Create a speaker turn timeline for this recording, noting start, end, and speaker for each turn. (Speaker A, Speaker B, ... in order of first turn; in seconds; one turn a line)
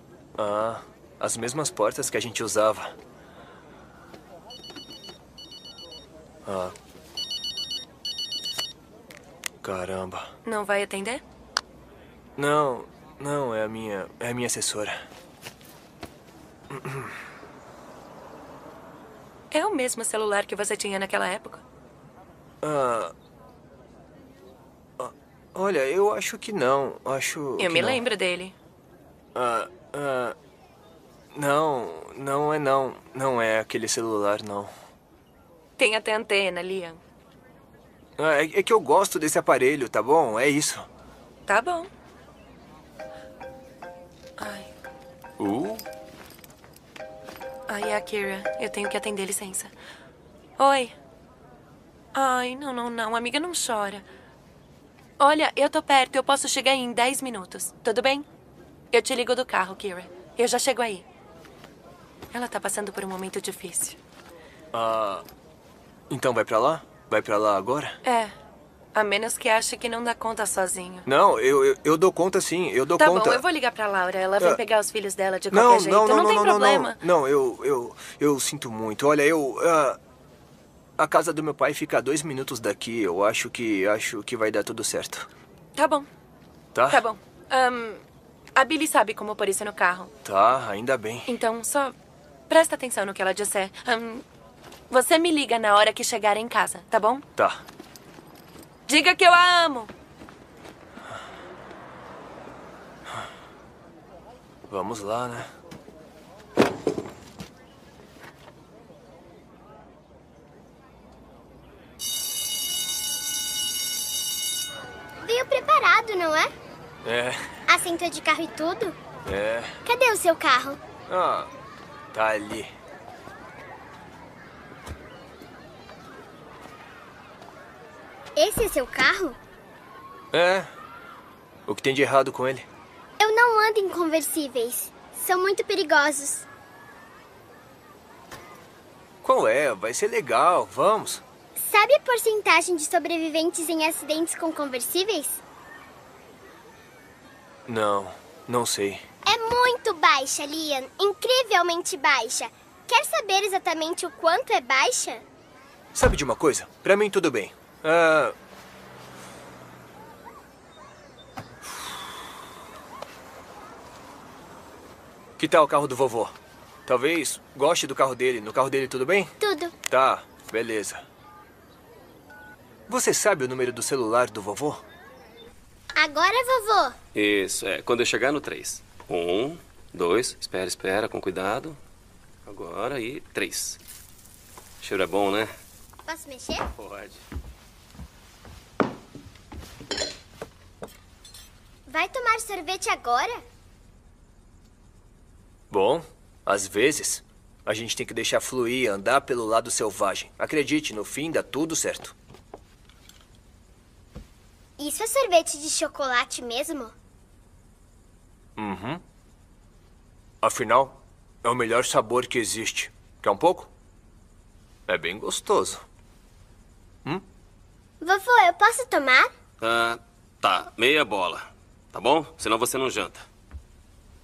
Speaker A: 0.4-2.9
Speaker A: 6.5-6.7
Speaker A: 9.6-10.3
Speaker B: 10.4-11.2
Speaker A: 12.4-15.0
Speaker A: 16.7-17.1
Speaker B: 19.5-21.6
Speaker A: 22.6-23.1
Speaker A: 25.0-28.0
Speaker B: 27.6-28.5
Speaker A: 29.3-30.4
Speaker A: 31.3-34.7
Speaker B: 35.8-37.0
Speaker A: 38.2-40.9
Speaker B: 41.5-41.9
Speaker B: 44.4-44.7
Speaker A: 45.4-45.8
Speaker B: 47.7-49.7
Speaker B: 50.6-50.9
Speaker B: 52.1-54.0
Speaker B: 55.2-58.2
Speaker B: 58.9-61.0
Speaker B: 62.3-64.0
Speaker A: 64.7-65.2
Speaker A: 66.1-68.0
Speaker B: 68.0-68.3
Speaker B: 68.9-71.1
Speaker A: 71.1-73.4
Speaker B: 73.0-77.0
Speaker A: 75.5-80.0
Speaker A: 81.0-85.3
Speaker B: 85.8-86.1
Speaker A: 86.7-87.0
Speaker B: 86.9-88.0
Speaker B: 88.5-90.1
Speaker A: 90.2-91.2
Speaker B: 91.3-92.0
Speaker B: 92.5-94.2
Speaker B: 94.9-97.3
Speaker A: 97.3-97.6
Speaker B: 98.9-99.9
Speaker A: 104.7-105.5
Speaker C: 115.2-116.5
Speaker A: 117.0-117.5
Speaker C: 117.7-119.0
Speaker A: 119.2-119.8
Speaker C: 119.8-120.8
Speaker A: 121.1-121.5
Speaker A: 122.1-122.7
Speaker C: 128.3-129.4
Speaker A: 130.3-130.7
Speaker A: 131.7-132.7
Speaker C: 133.2-136.4
Speaker A: 139.2-141.2
Speaker C: 141.6-145.4
Speaker A: 147.7-149.0
Speaker C: 149.2-155.2
Speaker A: 155.9-158.3
Speaker A: 165.4-169.3
Speaker C: 169.4-169.7
Speaker A: 169.9-171.0
Speaker A: 172.9-174.8
Speaker C: 176.0-176.9
Speaker D: 177.1-181.8
Speaker D: 182.4-183.8
Speaker D: 184.8-185.5
Speaker C: 186.1-186.7
Speaker D: 186.8-187.2
Speaker C: 191.9-193.4
Speaker A: 195.7-202.1
Speaker C: 204.8-206.9
Speaker A: 208.6-209.0
Speaker A: 210.4-213.7
Speaker A: 214.9-215.8
Speaker C: 218.0-219.3
Speaker D: 219.6-223.2